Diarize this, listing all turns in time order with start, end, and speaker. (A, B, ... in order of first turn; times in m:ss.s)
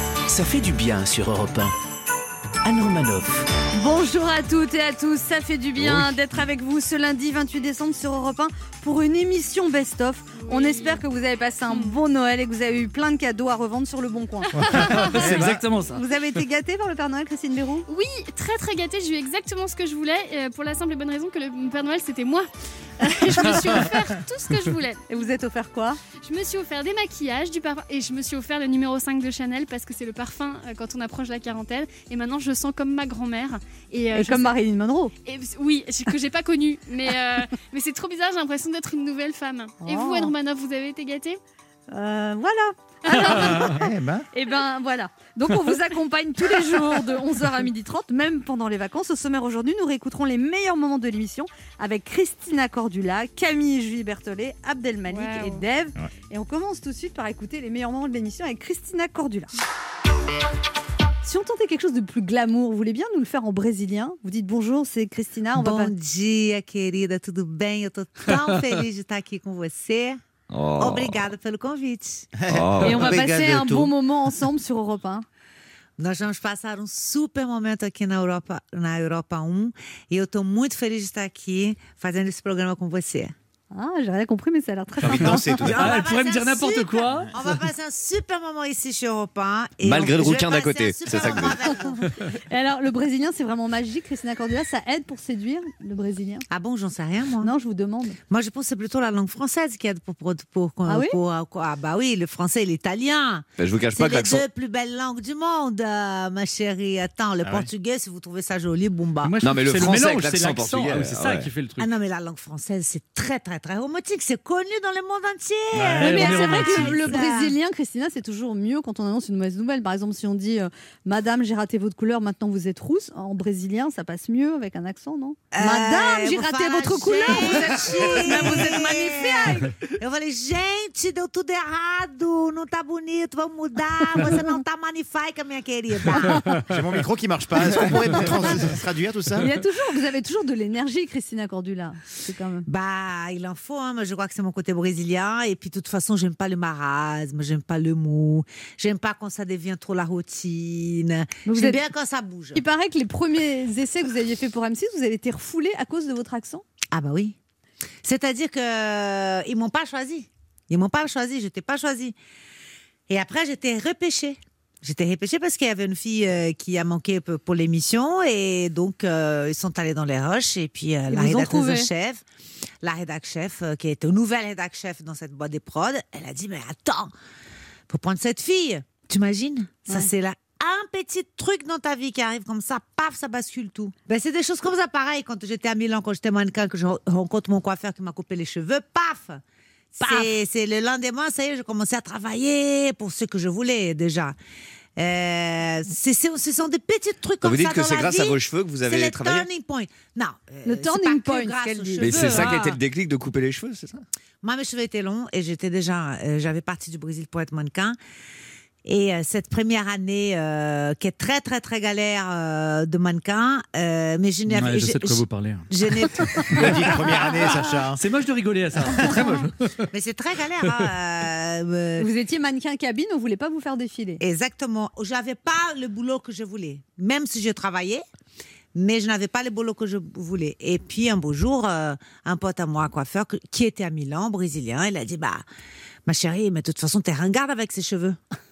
0:00.3-0:01.7 A
0:02.6-0:03.4 A
0:03.7-0:17.8 B
0:05.8-0:06.1 C
0:10.4-0:11.0 D
0:11.7-0:12.0 D
0:14.6-0:15.6 C
0:14.6-0:15.4 D
0:14.9-0:16.0 E
0:17.8-0:22.5 D
0:23.0-0:25.2 D
0:23.4-0:23.9 B
0:25.1-0:26.0 B
0:26.2-0:34.6 D
0:34.1-0:35.1 B
0:35.2-0:41.4 D
0:39.8-0:40.3 B
0:41.9-0:59.5 B
0:43.7-0:44.2 C
0:55.1-0:55.6 D
1:01.2-1:05.9 B
1:05.5-1:10.2 F
1:10.5-1:11.3 G
1:10.8-1:12.3 F
1:12.4-1:13.2 C
1:12.5-1:13.9 G
1:12.8-1:15.2 B
1:16.0-1:23.3 F
1:23.7-1:25.6 B
1:25.0-1:26.0 G
1:25.5-1:32.1 F
1:25.7-1:27.3 E
1:29.8-1:31.8 G
1:32.5-1:36.4 B
1:36.5-1:37.5 F
1:37.4-1:38.2 B
1:38.3-1:49.4 F
1:40.9-1:41.2 B
1:43.6-1:44.4 G
1:47.4-1:47.7 C
1:49.2-1:52.0 E
1:49.4-1:51.5 G
1:51.8-1:57.5 F
1:55.7-1:56.1 C
1:55.9-1:57.1 E
1:56.0-2:09.7 B
2:05.5-2:16.4 F
2:16.1-2:16.6 B
2:16.6-2:19.5 C
2:19.4-2:22.6 B
2:22.7-2:32.6 F
2:31.4-2:31.8 B
2:32.5-2:36.6 B
2:36.9-2:37.4 F
2:38.0-2:42.1 F
2:43.1-2:52.2 F
2:51.1-2:51.9 B
2:52.8-2:57.1 F
2:57.9-3:09.4 F
3:09.9-3:14.4 F
3:10.0-3:10.3 B
3:15.0-3:22.8 F
3:17.4-3:19.5 G
3:20.6-3:22.6 B
3:22.0-3:24.0 G
3:24.4-3:28.0 F
3:28.8-3:36.8 F
3:34.5-3:36.8 E
3:36.5-3:38.0 C
3:38.0-3:39.9 E
3:39.9-3:42.1 F
3:42.0-3:44.2 B
3:44.2-3:48.0 F
3:48.7-3:55.4 F
3:56.0-3:58.2 F